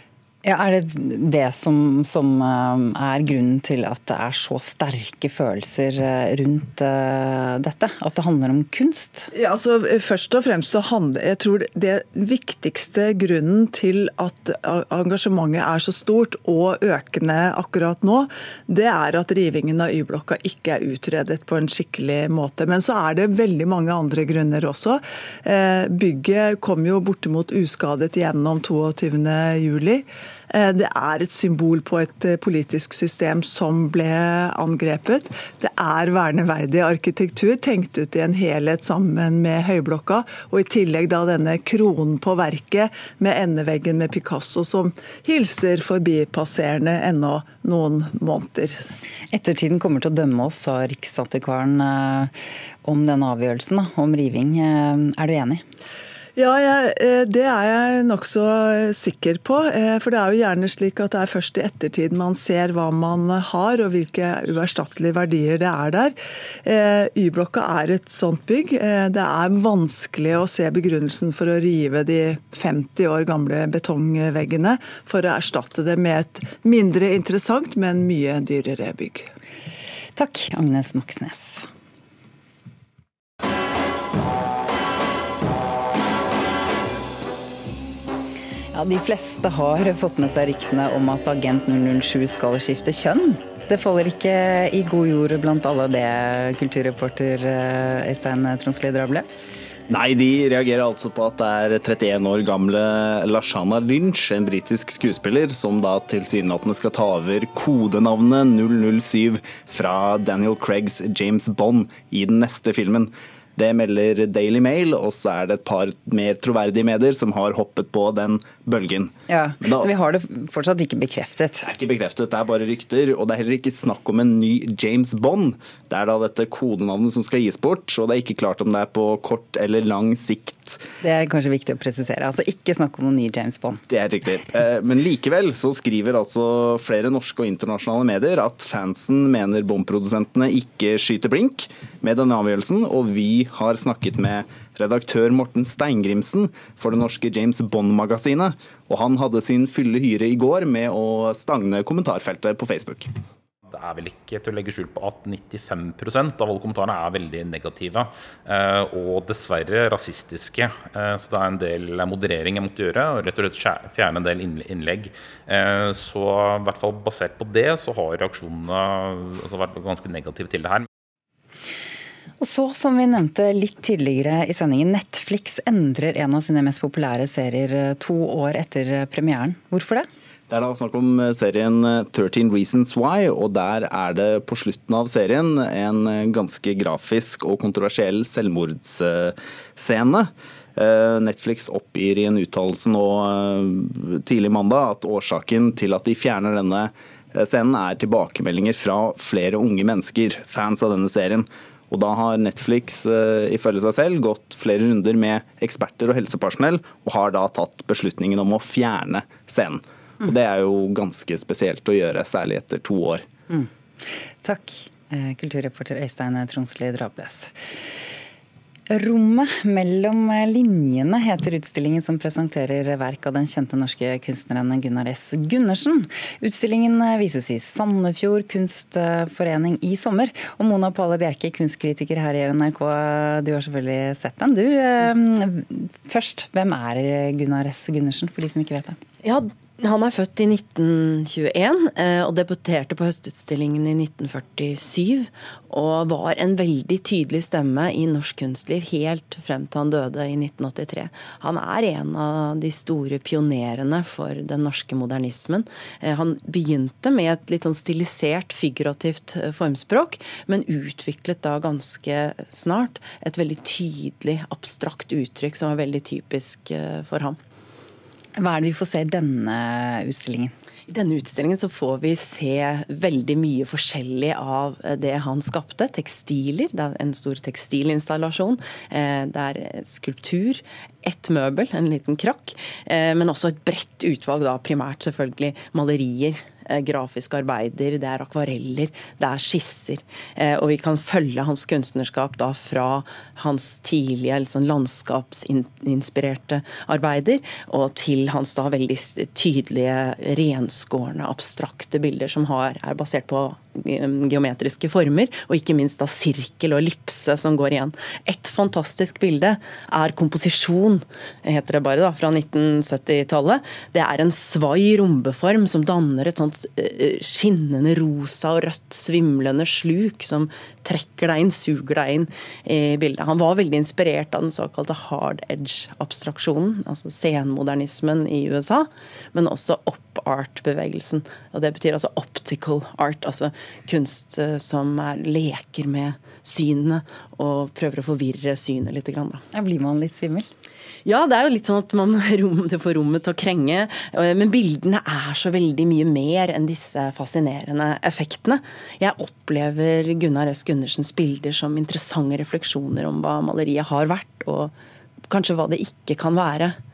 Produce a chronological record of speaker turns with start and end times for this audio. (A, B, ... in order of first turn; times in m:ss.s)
0:00.4-0:09.3 A
0:09.3-0:48.8 B
0:49.3-0:52.3 A
0:52.8-0:55.6 A
0:56.4-1:19.3 B
1:20.1-1:21.7 A
1:28.7-1:39.5 A
1:39.9-1:59.9 C
1:59.3-2:01.7 A
2:01.6-2:10.8 C
2:11.0-2:13.8 A
2:13.9-2:33.1 C
2:33.7-2:50.9 D
2:52.4-3:00.0 A
3:00.5-3:33.2 C
3:34.4-3:37.5 A
3:38.9-3:59.0 A
3:59.2-4:27.4 E
4:28.4-4:30.5 A
4:30.9-5:39.4 E
5:39.5-5:40.5 A
5:41.0-5:54.7 E
5:55.3-5:56.8 E